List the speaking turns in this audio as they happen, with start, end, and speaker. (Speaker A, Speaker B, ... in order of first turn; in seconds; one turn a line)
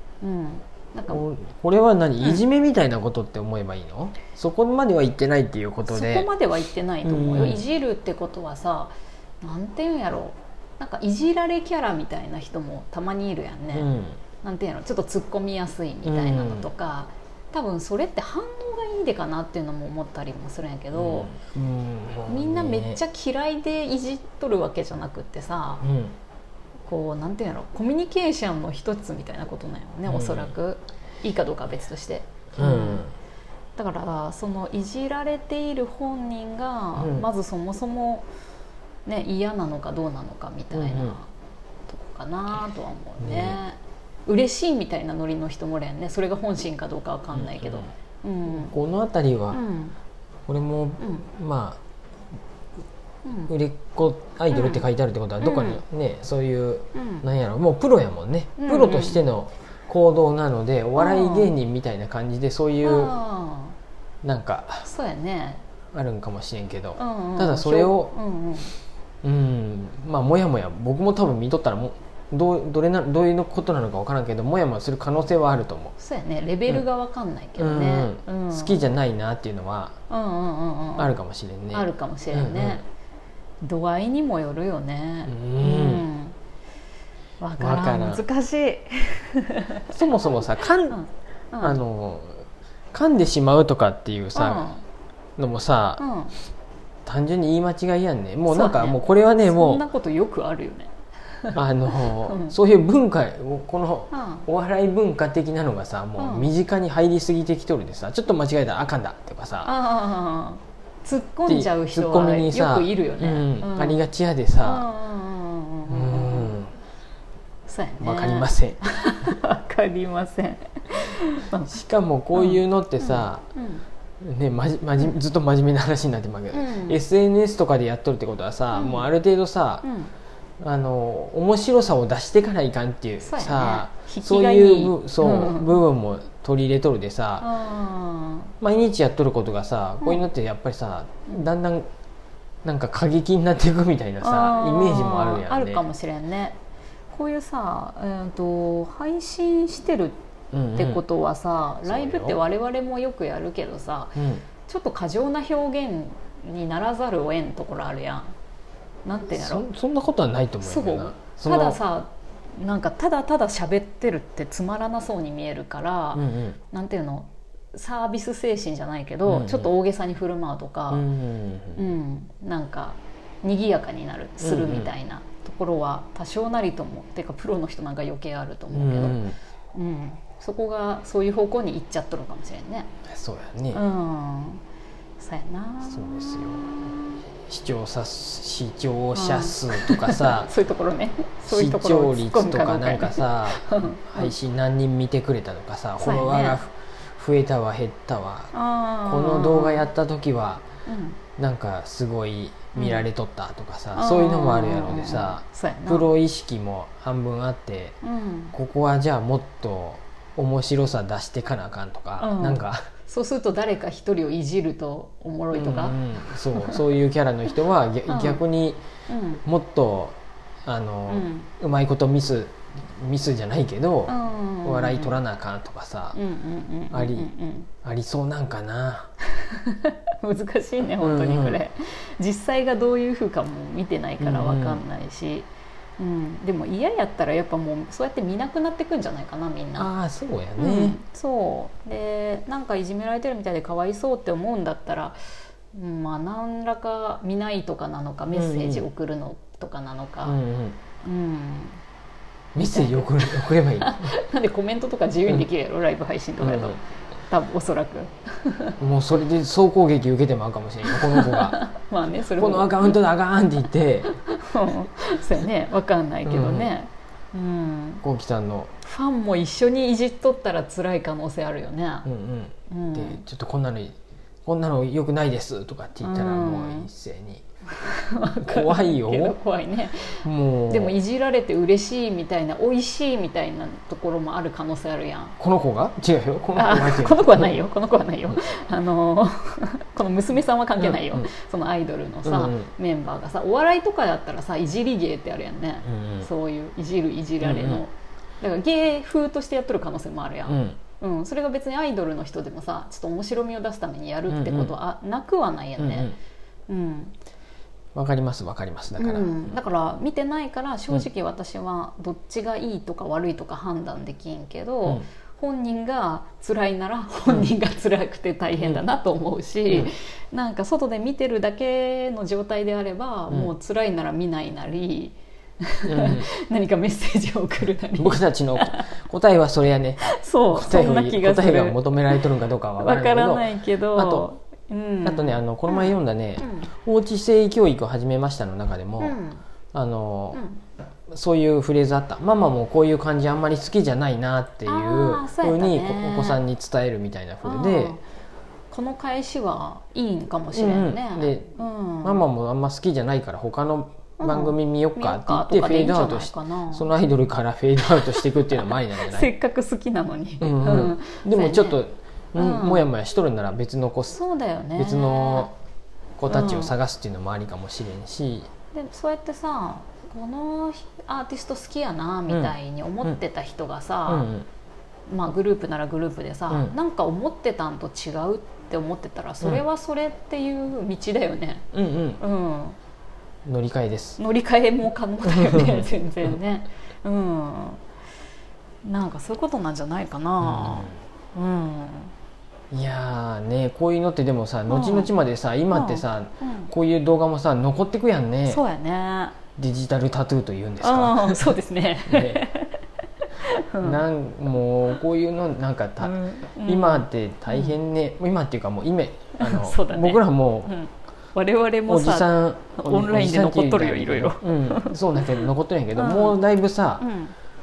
Speaker A: 0.2-1.2
Speaker B: 1.1-6.3
Speaker A: 5.9-13.9
Speaker B: 7.0-7.7
Speaker B: 13.7-14.2
Speaker A: 14.4-21.3
Speaker B: 16.1-16.7
Speaker B: 20.9-23.0
Speaker A: 22.3-25.8
Speaker B: 25.8-26.1
Speaker A: 26.9-33.1
Speaker B: 30.1-30.6
Speaker B: 32.5-33.1
Speaker A: 33.8-38.3
Speaker B: 37.0-37.3
Speaker A: 39.1-41.3
Speaker B: 40.7-41.2
Speaker A: 41.9-48.8
Speaker B: 43.2-43.6
Speaker B: 47.3-47.9
Speaker B: 48.5-49.6
Speaker A: 49.5-50.0
Speaker B: 50.5-51.8
Speaker A: 51.0-51.3
Speaker A: 53.2-53.5
Speaker B: 53.5-63.1
Speaker A: 54.5-54.9
Speaker A: 55.4-55.8
Speaker A: 56.9-57.3
Speaker A: 58.6-59.2
Speaker A: 61.0-61.5
Speaker A: 62.8-63.8
Speaker B: 64.2-64.9
Speaker A: 64.8-65.6
Speaker B: 65.9-68.2
Speaker A: 67.0-68.7
Speaker B: 69.2-76.0
Speaker A: 76.0-78.8
Speaker B: 77.6-80.0
Speaker A: 80.1-81.2
Speaker B: 81.0-82.8
Speaker A: 81.7-82.8
Speaker A: 83.6-86.3
Speaker B: 85.2-86.1
Speaker A: 87.4-89.9
Speaker B: 87.6-88.2
Speaker B: 89.9-91.0
Speaker A: 90.9-91.8
Speaker B: 91.6-94.7
Speaker A: 94.3-94.8
Speaker B: 95.4-96.1
Speaker A: 96.0-96.3
Speaker B: 97.1-99.9
Speaker A: 98.5-100.9
Speaker A: 101.4-102.6
Speaker B: 101.5-109.7
Speaker A: 104.1-104.5
Speaker A: 106.2-106.5
Speaker A: 109.6-114.0
Speaker B: 111.5-114.9
Speaker A: 114.6-116.5
Speaker B: 115.9-116.7
Speaker A: 117.7-121.7
Speaker B: 118.0-118.8
Speaker B: 121.7-123.5
Speaker A: 122.3-123.9
Speaker B: 124.2-129.9
Speaker A: 126.5-127.0
Speaker A: 128.7-129.1
Speaker A: 129.8-130.1
Speaker B: 130.6-137.5
Speaker A: 133.2-135.8
Speaker A: 137.4-138.5
Speaker B: 138.6-141.9
Speaker B: 142.7-145.8
Speaker A: 144.2-146.6
Speaker A: 147.1-150.2
Speaker B: 150.5-151.0
Speaker A: 150.8-158.3
Speaker B: 151.8-152.4
Speaker B: 154.2-154.4
Speaker A: 159.1-159.6
Speaker B: 159.3-161.8
Speaker A: 160.6-171.1
Speaker B: 166.2-166.6
Speaker B: 169.3-169.7
Speaker B: 170.9-171.8
Speaker A: 171.8-182.9
Speaker B: 174.4-174.9
Speaker B: 178.7-179.4
Speaker B: 183.1-183.8
Speaker A: 183.7-184.6
Speaker A: 185.2-186.1
Speaker B: 185.8-190.5
Speaker A: 189.1-194.3
Speaker B: 191.4-198.5
Speaker A: 196.0-196.6
Speaker A: 198.5-199.9
Speaker B: 199.1-200.7
Speaker A: 200.9-201.2
Speaker B: 201.4-208.0
Speaker A: 202.8-203.1
Speaker A: 203.9-206.1
Speaker A: 208.0-208.6
Speaker B: 208.5-212.9
Speaker A: 212.2-216.8
Speaker B: 215.5-218.8
Speaker A: 218.1-218.4
Speaker A: 219.1-219.4
Speaker B: 219.4-226.2
Speaker A: 221.1-221.5
Speaker A: 224.1-225.2
Speaker A: 226.1-227.7
Speaker B: 226.9-227.3
Speaker B: 227.8-229.1
Speaker A: 229.3-239.9
Speaker B: 231.0-231.6
Speaker B: 234.2-234.8
Speaker B: 239.8-241.0
Speaker A: 240.6-245.2
Speaker A: 245.7-250.4
Speaker B: 248.3-248.8
Speaker B: 250.2-250.8
Speaker A: 251.0-251.8
Speaker B: 252.6-254.1
Speaker A: 252.6-258.8
Speaker B: 256.4-256.8
Speaker B: 258.8-261.6
Speaker A: 260.9-263.0
Speaker B: 262.3-264.1
Speaker A: 264.1-268.0
Speaker B: 266.2-266.7
Speaker B: 268.0-268.7
Speaker A: 268.8-272.1
Speaker B: 272.1-277.4
Speaker A: 272.7-273.2
Speaker A: 276.0-276.9
Speaker A: 277.7-285.4
Speaker B: 278.4-279.4
Speaker B: 280.2-281.0
Speaker B: 285.4-287.5
Speaker A: 286.6-306.1
Speaker B: 290.8-291.3
Speaker B: 292.2-292.7
Speaker B: 295.8-296.3
Speaker B: 297.4-297.8
Speaker B: 300.5-300.8
Speaker B: 304.3-304.8
Speaker B: 305.8-306.2
Speaker A: 306.7-307.1
Speaker B: 307.9-309.6
Speaker A: 309.0-328.8
Speaker B: 318.6-318.8
Speaker B: 325.9-326.3
Speaker B: 328.0-334.3
Speaker A: 330.0-332.2
Speaker A: 332.8-336.7
Speaker B: 335.0-339.2
Speaker A: 339.0-339.4
Speaker B: 339.7-340.4
Speaker A: 340.3-340.6
Speaker B: 341.1-348.0
Speaker A: 344.6-346.4
Speaker A: 347.4-348.0
Speaker A: 348.7-352.2
Speaker B: 350.5-359.3
Speaker A: 354.2-356.9
Speaker A: 358.0-358.2
Speaker A: 359.0-361.8
Speaker B: 360.4-364.2
Speaker A: 362.4-362.9
Speaker A: 364.1-365.5
Speaker B: 364.8-365.5
Speaker B: 366.2-368.5
Speaker A: 366.3-366.7
Speaker A: 368.7-374.3
Speaker B: 372.3-372.5
Speaker B: 374.1-374.5
Speaker A: 375.1-381.7
Speaker B: 376.5-376.8
Speaker B: 381.7-382.2
Speaker A: 382.2-382.8
Speaker B: 383.5-384.2
Speaker A: 384.2-387.8
Speaker B: 385.3-385.9
Speaker A: 388.8-392.1
Speaker B: 390.4-391.0
Speaker B: 392.7-398.6
Speaker A: 394.7-395.1
Speaker A: 395.7-396.7
Speaker A: 398.5-399.4
Speaker B: 399.6-402.4
Speaker A: 400.8-402.8
Speaker A: 403.4-404.0
Speaker B: 403.8-410.7
Speaker A: 406.0-407.8
Speaker A: 409.4-415.0
Speaker B: 411.9-417.1
Speaker A: 415.9-416.4
Speaker A: 417.0-417.3